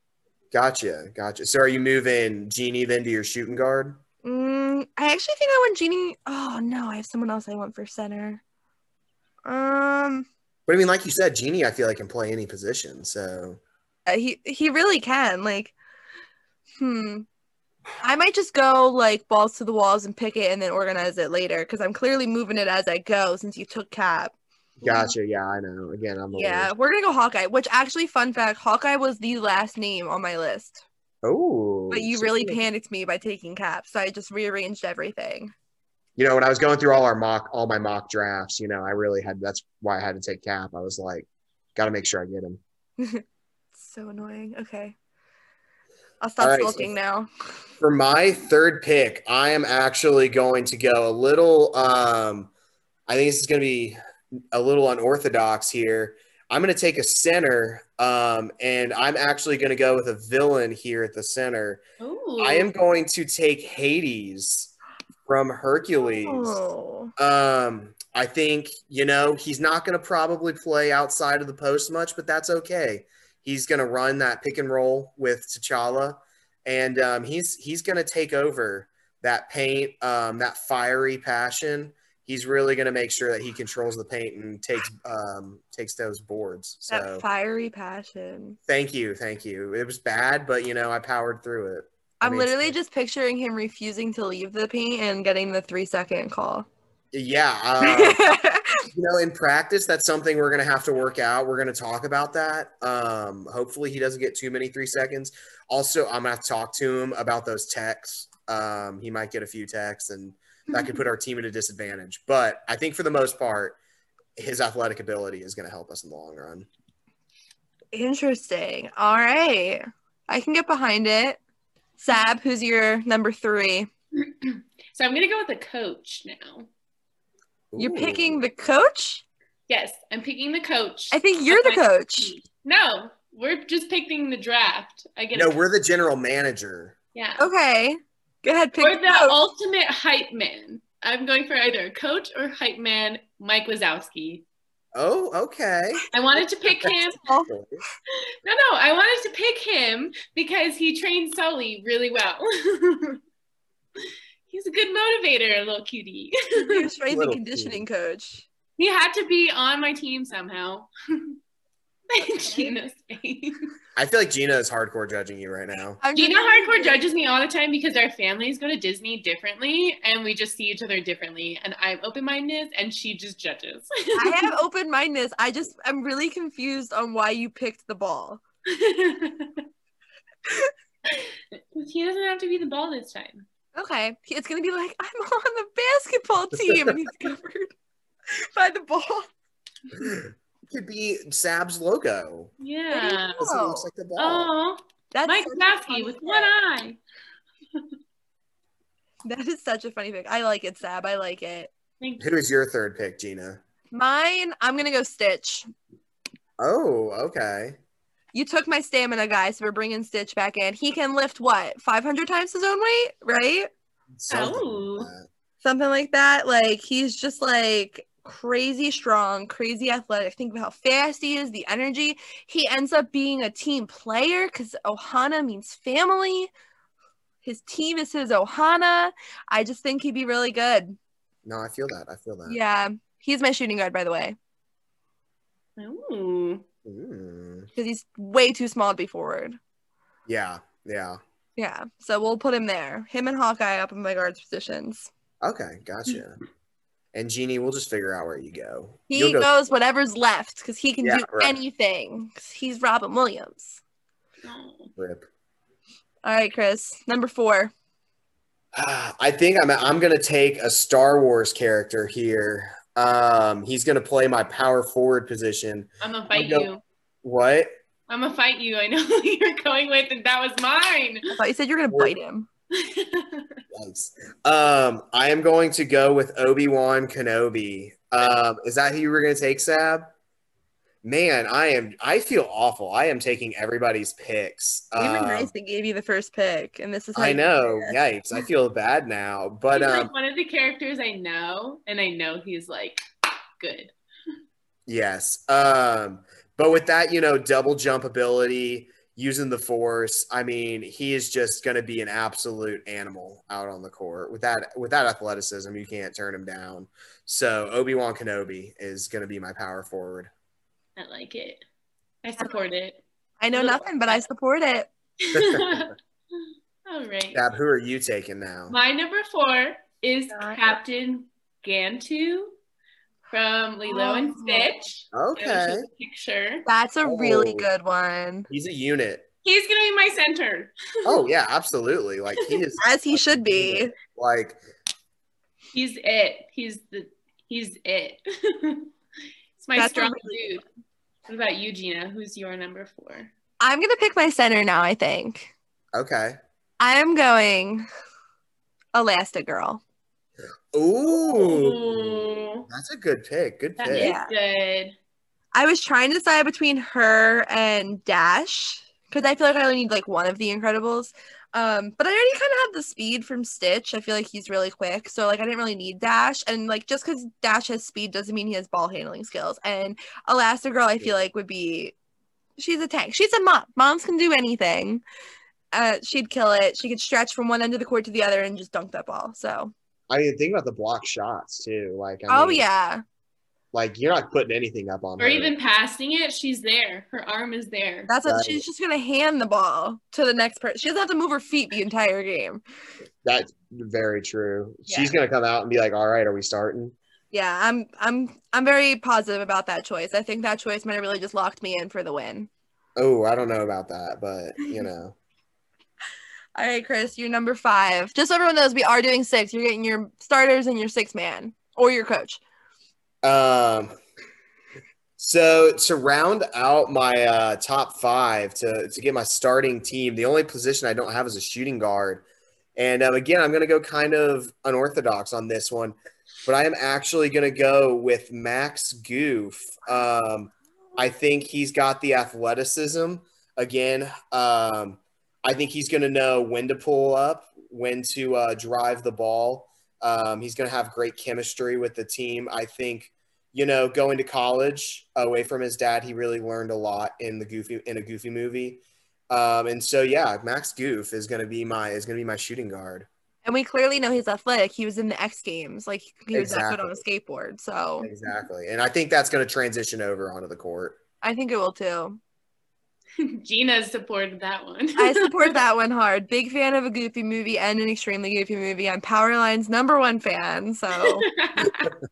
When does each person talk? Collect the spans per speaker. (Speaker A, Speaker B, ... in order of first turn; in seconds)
Speaker A: 0.5-4.0, 10.7-13.6, 24.8-26.7, 31.2-32.6, 36.2-42.6, 46.4-46.9, 47.8-52.5, 53.1-54.0, 54.5-61.8, 62.4-64.7, 65.2-66.6, 67.2-87.2, 88.7-92.7, 97.1-98.2, 98.9-113.8, 114.4-116.7, 127.7-128.4, 135.3-136.9, 144.9-146.1, 147.5-147.8, 157.1-157.8, 163.9-166.0, 190.0-192.5, 193.4-194.5, 202.2-203.6, 206.6-207.8, 214.2-215.2, 231.4-232.6, 236.8-237.7, 240.3-241.2, 245.4-246.4, 247.1-249.5, 251.0-251.6, 255.0-255.3, 258.7-266.7, 267.2-267.7, 273.7-280.1, 281.0-285.5, 287.1-290.1, 294.9-310.3, 315.3-315.9, 317.3-318.8, 325.1-325.8, 327.0-327.7, 328.5-329.2, 331.0-334.6, 345.9-346.4, 350.7-354.1, 380.1-382.6, 383.7-385.5, 388.2-388.6, 393.2-396.9, 403.0-405.1, 413.2-413.9, 415.2-422.2, 422.8-453.1, 456.3-457.0, 458.0-461.0
Speaker B: 4.2-8.4, 9.4-10.3, 14.1-15.7, 16.8-17.3, 18.0-25.1, 26.3-30.8, 31.9-35.5, 43.7-44.9, 46.2-47.3, 66.0-67.1, 86.9-88.6, 92.2-96.7, 97.8-98.8, 117.9-121.4, 122.0-123.9, 127.8-129.2, 131.1-132.3, 137.4-139.4, 146.9-147.5, 156.7-158.4, 162.4-162.7, 166.0-167.0, 174.1-178.4, 180.5-180.7, 183.7-187.7, 188.3-189.3, 192.9-193.9, 195.1-196.5, 199.2-201.7, 203.9-205.7, 208.3-213.7, 215.6-226.5, 227.4-230.9, 232.4-234.4, 237.7-239.6, 241.6-245.1, 249.1-253.8, 256.2-257.7, 271.3-272.5, 284.9-287.9, 313.4-314.9, 320.3-320.7, 323.9-324.7, 326.6-328.5, 332.8-333.9, 339.8-340.6, 343.6-345.5, 346.8-347.9, 348.9-349.8, 353.9-354.3, 355.5-371.9, 372.6-375.0, 375.7-379.7, 382.3-383.0, 388.1-392.6, 394.9-395.1, 397.3-402.5, 406.5-412.4, 453.4-458.1, 461.2-462.2, 465.0-471.2
Speaker C: 62.0-62.7, 124.2-126.7, 129.7-135.6, 137.1-137.5, 138.8-144.4, 146.1-147.2, 148.4-153.2, 154.5-156.9, 158.8-161.4, 162.1-163.6, 166.1-174.5, 178.7-179.6, 181.1-183.4, 192.6-193.4, 194.2-197.0, 202.0-202.2, 214.3-215.1, 235.8-236.6, 254.4-254.9, 266.0-266.8, 268.1-271.3, 272.7-273.6, 289.7-293.0, 293.6-293.9, 311.0-311.6, 312.2-314.2, 315.2-317.4, 318.7-322.5, 323.3-326.6, 329.4-331.2, 335.7-338.9, 339.6-340.6, 341.3-343.3, 351.1-352.7, 353.8-354.9, 385.2-388.1, 463.2-465.6, 471.0-471.9